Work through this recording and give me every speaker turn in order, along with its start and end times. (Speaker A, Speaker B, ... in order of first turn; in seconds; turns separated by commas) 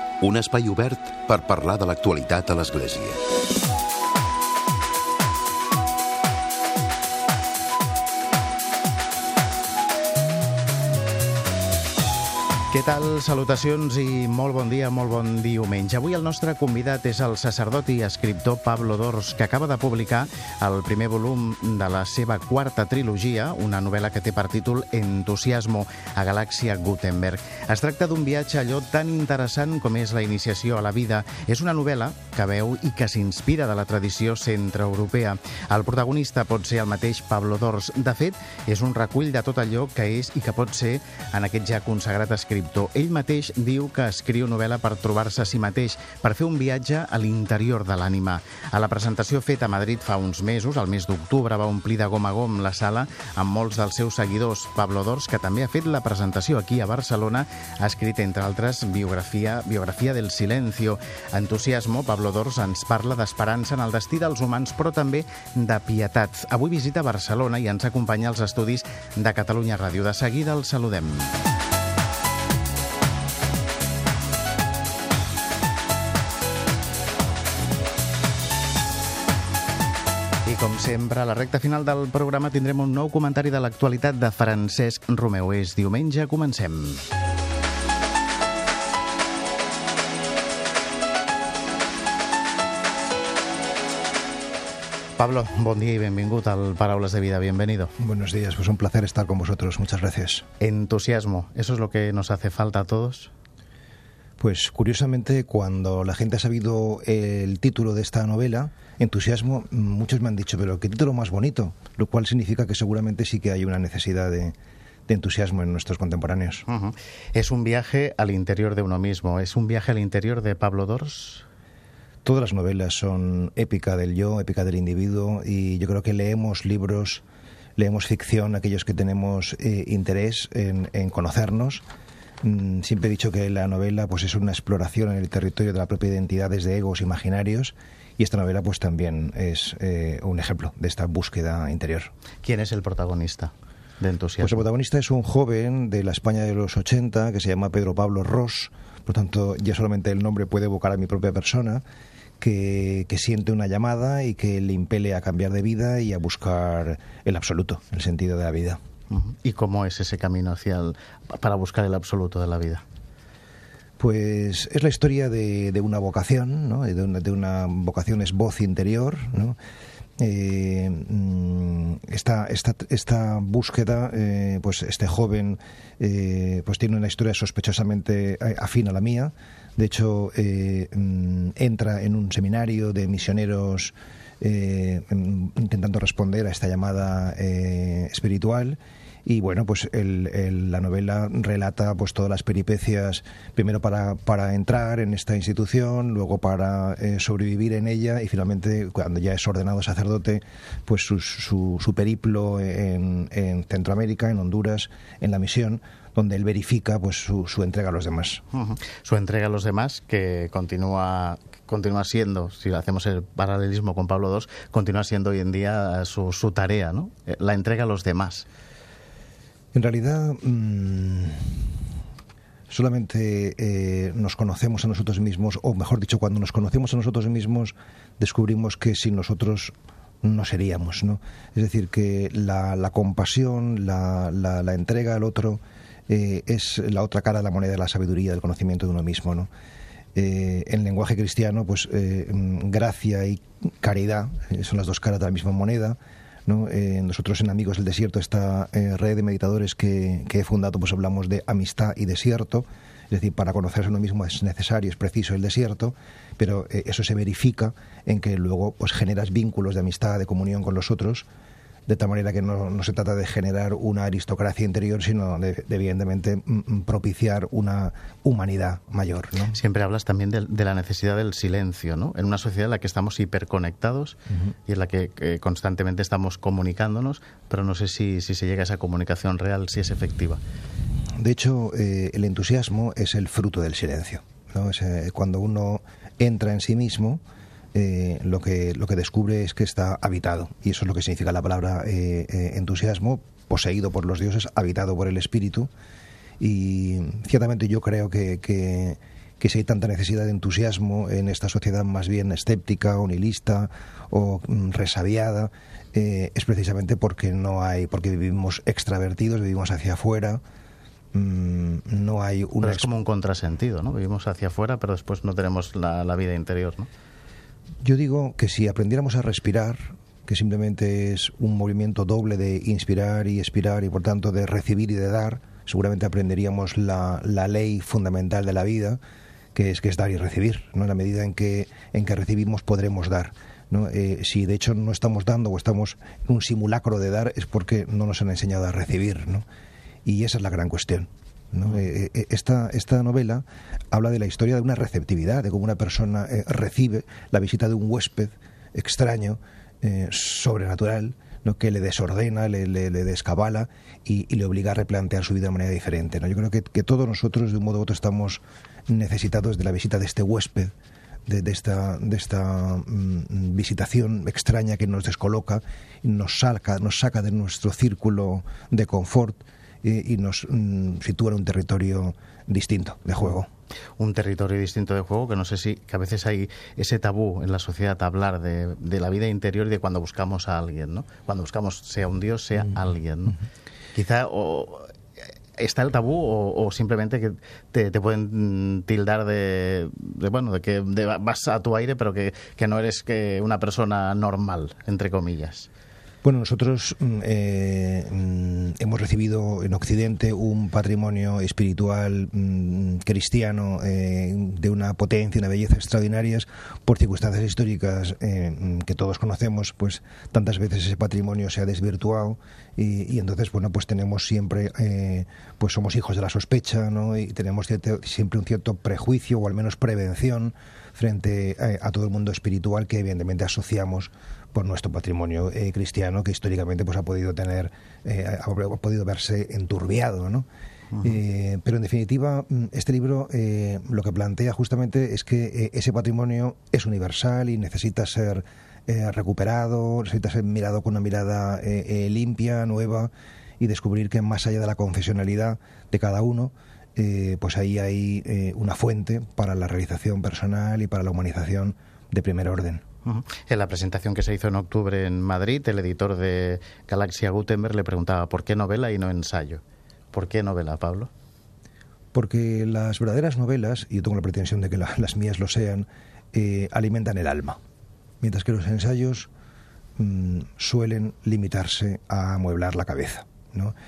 Speaker A: 0.2-3.2, Speaker B: 12.7-71.3, Speaker B: 80.5-87.0, Speaker B: 95.2-97.9, Speaker C: 98.0-100.5, Speaker B: 100.6-103.3, Speaker C: 104.4-114.6, Speaker C: 115.1-116.7, Speaker B: 116.7-121.5, Speaker C: 122.2-127.2, Speaker C: 127.8-131.8, Speaker C: 132.4-142.1, Speaker B: 142.4-144.6, Speaker C: 144.4-151.8, Speaker C: 152.4-158.8, Speaker B: 159.1-162.8, Speaker C: 164.0-169.6, Speaker C: 170.2-208.4, Speaker B: 208.5-218.5, Speaker C: 219.7-221.7, Speaker C: 222.7-239.5, Speaker C: 240.2-261.3, Speaker C: 261.9-269.6, Speaker B: 269.5-280.4, Speaker C: 281.2-287.2, Speaker C: 287.7-295.7, Speaker C: 296.4-310.4, Speaker C: 311.1-312.9, Speaker B: 312.6-316.9, Speaker C: 317.8-329.0, Speaker C: 329.5-339.4, Speaker C: 340.1-360.7, Speaker C: 361.3-373.5, Speaker B: 374.0-383.4, Speaker B: 383.9-395.7, Speaker C: 396.2-430.5, Speaker C: 431.0-452.9, Speaker B: 453.1-459.6, Speaker B: 460.1-461.1, Speaker C: 462.1-467.6, Speaker C: 468.2-469.3, Speaker C: 470.0-473.8